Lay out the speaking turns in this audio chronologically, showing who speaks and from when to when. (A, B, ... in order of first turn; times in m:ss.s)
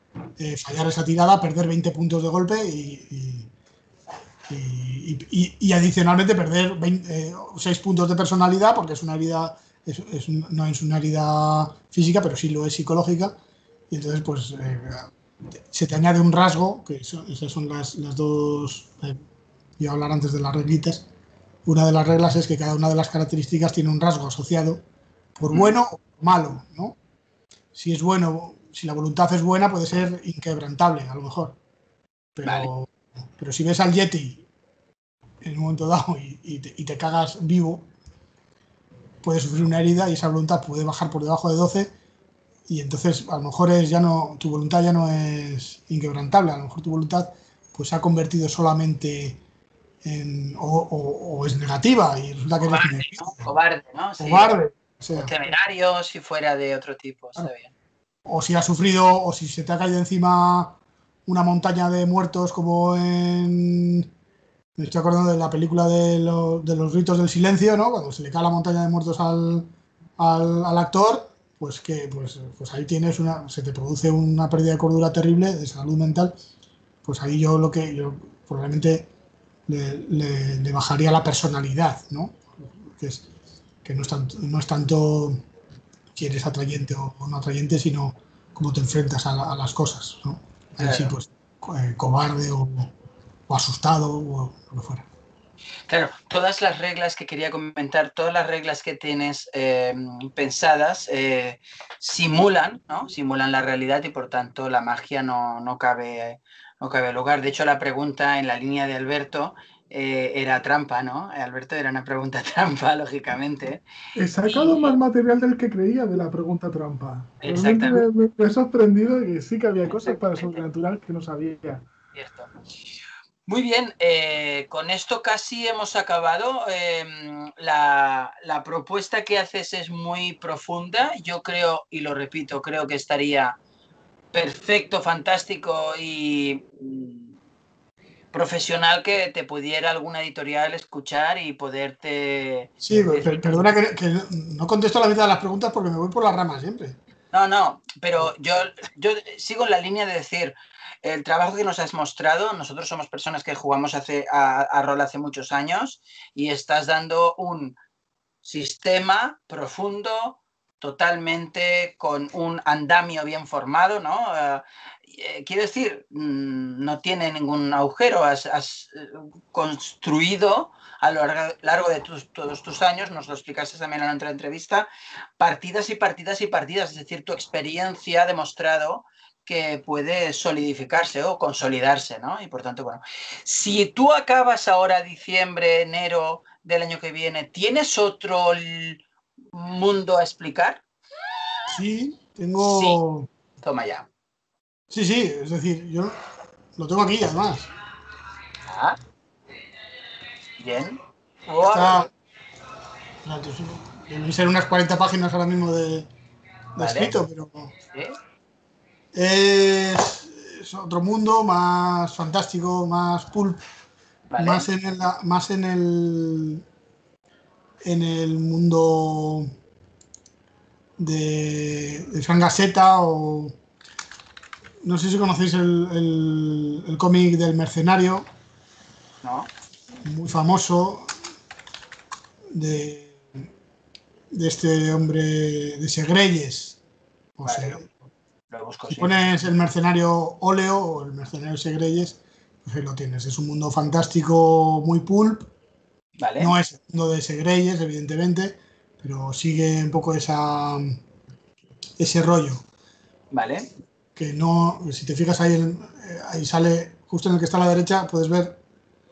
0:00.4-0:03.5 A
0:04.5-0:13.4 A
0:13.9-0:15.1 A
0:15.7-0:19.2 A
0:19.8-0:21.1 A
0:21.6-0:24.8 A
0:25.4-0:27.0 A
0:27.7-0:31.6 A
0:32.4-0:34.5 A
0:32.4-0:32.7 B
0:35.4-0:37.9 A
0:39.2-0:41.9 A
0:42.7-0:49.4 A
0:50.0-0:53.5 A
0:52.6-0:54.6 B
0:54.2-0:55.3 A
0:55.2-0:57.7 B
0:58.3-1:04.1 A
1:04.8-1:16.3 A
1:17.0-1:19.1 A
1:19.7-1:23.3 A
1:23.8-1:25.4 A
1:26.1-1:32.9 A
1:30.8-1:31.1 B
1:33.5-1:35.1 A
1:35.9-1:53.8 B
1:54.2-2:01.9 C
1:54.5-1:54.9 B
1:57.4-1:58.1 B
1:59.9-2:00.6 B
2:02.1-2:02.5 B
2:03.5-2:13.6 B
2:14.3-2:17.4 B
2:18.3-2:23.6 B
2:22.8-2:27.0 A
2:27.3-2:37.8 B
2:38.4-3:10.8 B
3:11.7-3:13.3 A
3:12.6-3:13.0 B
3:13.6-3:14.1 B
3:14.9-3:16.2 A
3:16.8-3:17.7 A
3:18.7-3:19.0 B
3:20.6-3:22.1 B
3:21.6-3:22.1 A
3:23.2-3:26.1 A
3:26.8-3:27.7 A
3:26.8-3:27.2 B
3:29.1-3:33.6 A
3:34.3-3:34.7 B
3:34.4-3:36.6 A
3:37.8-3:39.5 A
3:41.0-3:43.6 A
3:44.8-3:48.3 A
3:49.2-3:49.5 B
3:50.0-3:51.1 A
3:52.5-3:53.5 A
3:54.3-3:56.8 A
3:57.4-3:57.9 A
3:57.4-3:57.8 B
3:58.5-3:59.3 B
3:58.9-4:05.5 A
4:06.2-4:06.5 B
4:06.4-4:11.0 A
4:12.0-4:12.6 A
4:13.3-4:13.7 B
4:14.2-4:18.6 A